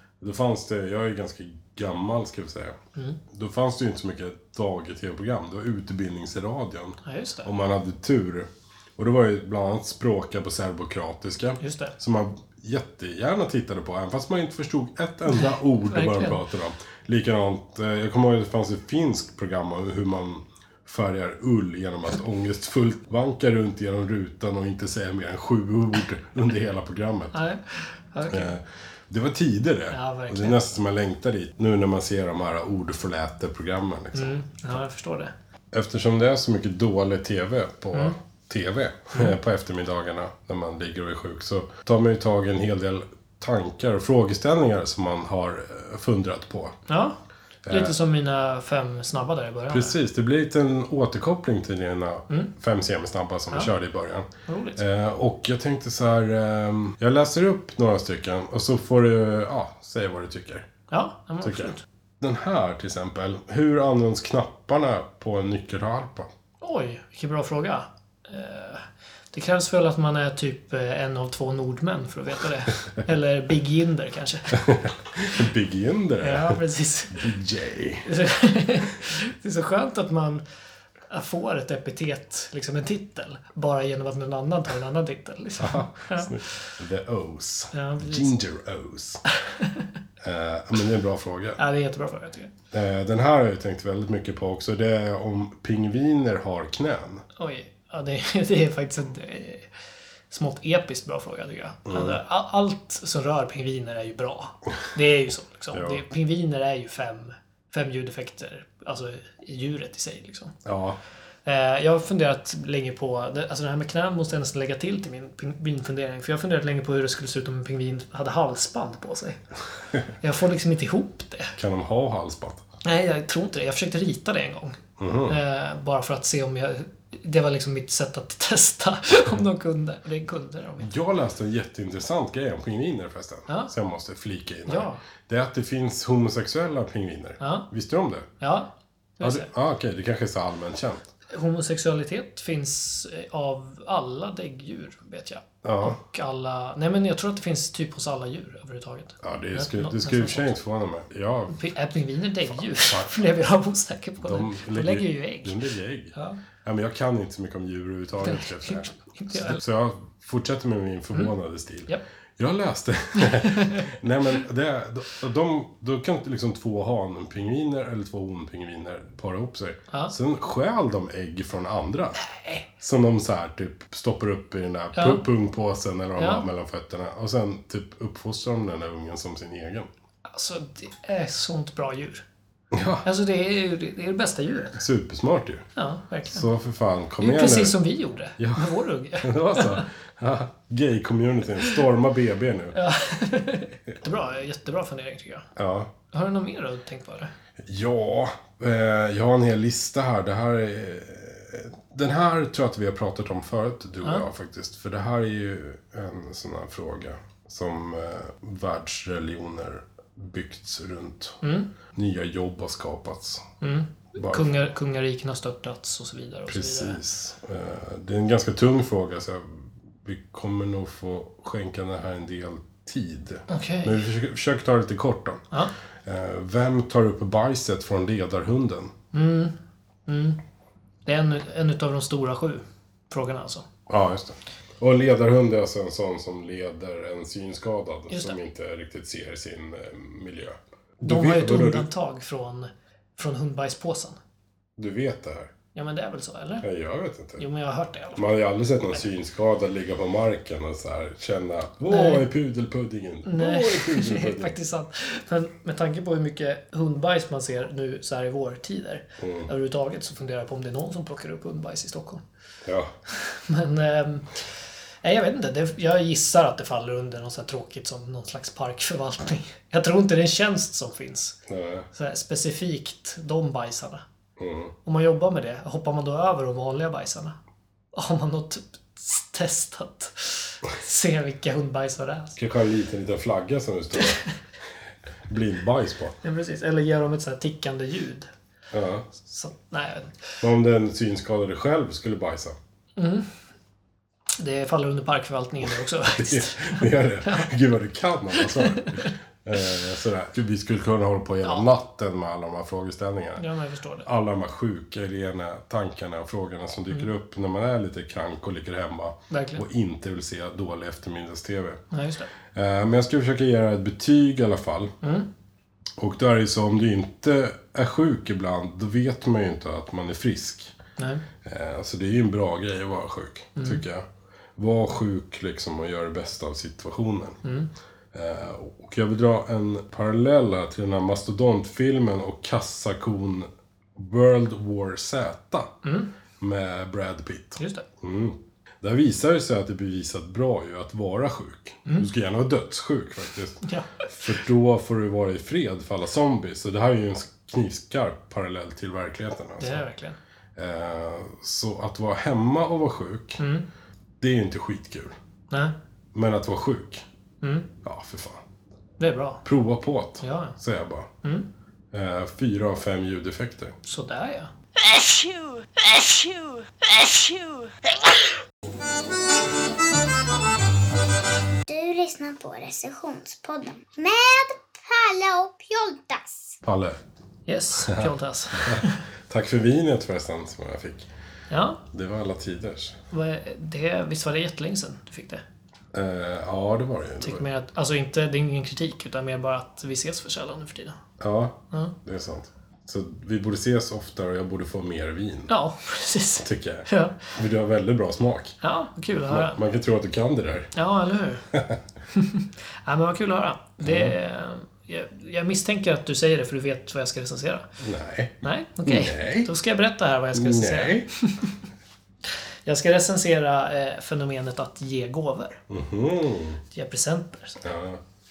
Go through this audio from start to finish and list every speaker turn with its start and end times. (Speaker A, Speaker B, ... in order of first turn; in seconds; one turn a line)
Speaker A: 0.2-2.8
Speaker A: 3.3-27.4
Speaker B: 7.0-7.5
Speaker B: 11.6-11.9
Speaker B: 15.3-16.4
Speaker B: 27.3-28.5
Speaker A: 28.3-34.4
Speaker B: 29.9-30.6
Speaker B: 34.1-35.3
Speaker A: 35.7-46.8
Speaker B: 46.9-47.2
Speaker A: 47.6-48.0
Speaker B: 47.7-50.0
Speaker A: 49.7-60.7
Speaker B: 54.5-54.8
Speaker B: 60.9-61.8
Speaker A: 61.4-66.3
Speaker B: 66.6-74.6
Speaker A: 74.5-76.6
Speaker B: 76.2-77.3
Speaker A: 77.1-78.1
Speaker B: 78.0-80.4
Speaker B: 81.1-86.4
Speaker A: 85.6-89.2
Speaker B: 87.7-88.3
Speaker B: 89.5-89.9
Speaker A: 90.2-91.6
Speaker B: 91.6-92.5
Speaker A: 92.7-97.2
Speaker B: 97.3-99.7
Speaker B: 100.3-110.5
Speaker A: 101.8-102.2
Speaker A: 105.7-106.0
Speaker A: 110.6-111.0
Speaker B: 111.4-119.4
Speaker B: 120.2-121.5
Speaker A: 121.6-122.6
Speaker B: 122.8-130.9
Speaker A: 125.0-125.4
Speaker A: 130.8-138.3
Speaker B: 134.7-135.0
Speaker B: 137.4-137.7
Speaker B: 138.4-139.5
Speaker A: 139.2-141.1
Speaker B: 141.3-150.5
Speaker A: 145.6-146.0
Speaker A: 149.2-151.6
Speaker B: 151.5-155.6
Speaker A: 152.7-153.1
Speaker A: 154.2-172.2
Speaker B: 156.1-156.4
Speaker B: 158.2-159.6
Speaker B: 163.2-163.9
Speaker B: 172.2-172.7
Speaker A: 172.7-179.9
Speaker B: 174.9-175.2
Speaker B: 176.2-176.4
Speaker B: 180.3-182.2
Speaker A: 182.7-183.0
Speaker B: 183.0-184.8
Speaker A: 184.8-185.7
Speaker B: 185.8-186.4
Speaker A: 186.3-187.8
Speaker B: 187.2-189.9
Speaker A: 188.4-192.8
Speaker B: 192.7-195.5
Speaker A: 195.6-195.9
Speaker B: 196.1-197.3
Speaker A: 197.6-211.4
Speaker B: 211.4-211.7
Speaker A: 211.9-213.5
Speaker B: 213.6-217.0
Speaker A: 214.2-214.6
Speaker A: 216.5-225.4
Speaker B: 223.5-223.9
Speaker A: 226.0-228.9
Speaker B: 229.1-229.6
Speaker B: 230.1-230.4
Speaker B: 231.1-233.7
Speaker A: 233.9-241.9
Speaker B: 238.1-238.4
Speaker B: 241.0-244.2
Speaker A: 244.8-245.5
Speaker B: 245.7-246.7
Speaker A: 246.6-247.4
Speaker B: 247.4-248.3
Speaker A: 248.2-254.5
Speaker B: 251.9-252.2
Speaker B: 253.2-262.2
Speaker A: 259.2-259.5
Speaker A: 262.6-262.9
Speaker B: 263.1-264.4
Speaker B: 265.0-271.4
Speaker A: 271.5-271.9
Speaker B: 271.9-274.0
Speaker A: 274.4-274.7
Speaker B: 274.8-277.4
Speaker B: 277.9-282.4
Speaker A: 282.4-284.2
Speaker B: 284.0-284.2
Speaker A: 285.3-286.1
Speaker B: 286.2-288.3
Speaker A: 288.7-289.1
Speaker B: 289.2-290.4
Speaker A: 290.4-292.6
Speaker B: 293.0-293.3
Speaker B: 294.4-297.5
Speaker A: 296.1-303.4
Speaker B: 298.4-299.1
Speaker B: 303.4-304.1
Speaker A: 304.0-311.8
Speaker B: 309.3-309.6
Speaker B: 311.9-312.3
Speaker A: 312.5-314.9
Speaker B: 315.0-315.3
Speaker A: 316.0-320.7
Speaker B: 321.0-321.2
Speaker A: 321.4-327.4
Speaker B: 323.6-323.8
Speaker B: 327.4-327.7
Speaker A: 328.1-335.8
Speaker B: 335.8-336.1
Speaker A: 336.4-349.8
Speaker B: 337.6-337.9
Speaker B: 343.6-344.4
Speaker B: 349.6-350.2
Speaker A: 350.6-353.4
Speaker B: 353.4-353.6
Speaker A: 354.2-355.1
Speaker A: 356.1-357.1
Speaker B: 357.4-357.7
Speaker A: 357.8-358.4
Speaker B: 359.0-359.4
Speaker A: 359.4-361.1
Speaker B: 360.2-360.6
Speaker A: 361.9-363.7
Speaker B: 363.8-365.0
Speaker B: 365.8-366.2
Speaker B: 366.8-367.7
Speaker C: 371.6-376.6
Speaker A: 376.6-377.0
Speaker B: 377.5-379.0
Speaker A: 377.8-381.1
Speaker B: 381.5-381.8
Speaker A: 381.9-383.0
Speaker B: 383.1-385.4
Speaker A: 385.9-387.4
Speaker B: 387.2-391.0
Speaker A: 391.2-395.5
Speaker B: 395.5-397.3
Speaker A: 396.4-398.6
Speaker B: 398.6-399.6
Speaker A: 399.1-400.7
Speaker B: 400.7-401.5
Speaker A: 401.5-401.8
Speaker B: 402.1-407.7
Speaker A: 403.8-404.1
Speaker A: 407.8-409.5
Speaker B: 408.4-411.5
Speaker A: 410.3-411.1
Speaker B: 412.6-415.6
Speaker A: 415.7-416.6
Speaker B: 416.7-417.6
Speaker A: 417.6-418.0